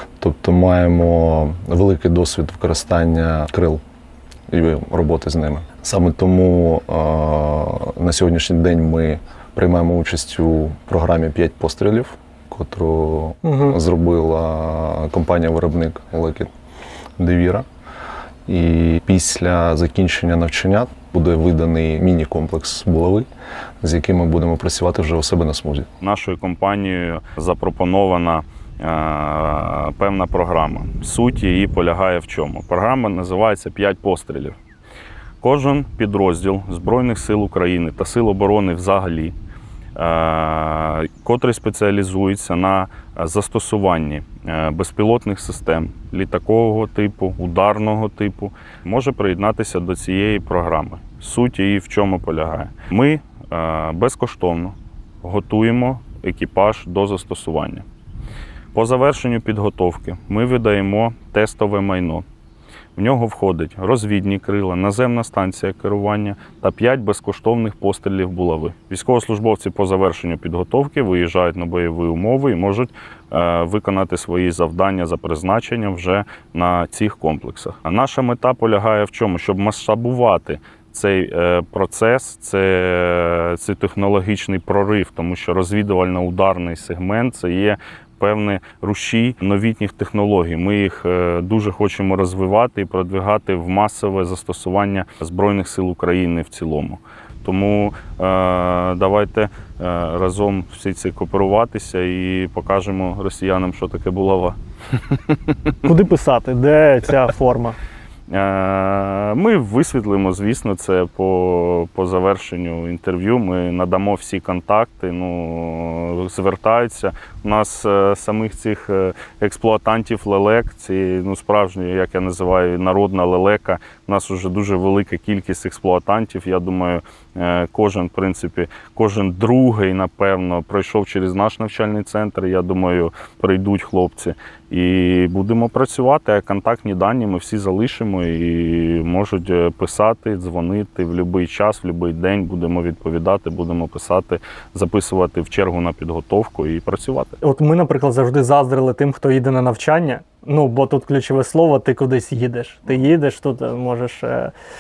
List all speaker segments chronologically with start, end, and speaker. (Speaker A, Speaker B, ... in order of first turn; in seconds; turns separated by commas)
Speaker A: 0.2-3.8, Speaker A: 4.5-16.5, Speaker B: 13.4-13.8, Speaker A: 17.2-17.7, Speaker A: 18.5-23.3, Speaker A: 23.8-25.9, Speaker C: 26.0-34.6, Speaker C: 35.4-39.4, Speaker C: 40.0-57.9, Speaker C: 58.7-62.2, Speaker C: 63.0-104.6, Speaker C: 105.1-105.7, Speaker B: 105.8-107.8, Speaker C: 108.3-147.4, Speaker B: 147.4-154.5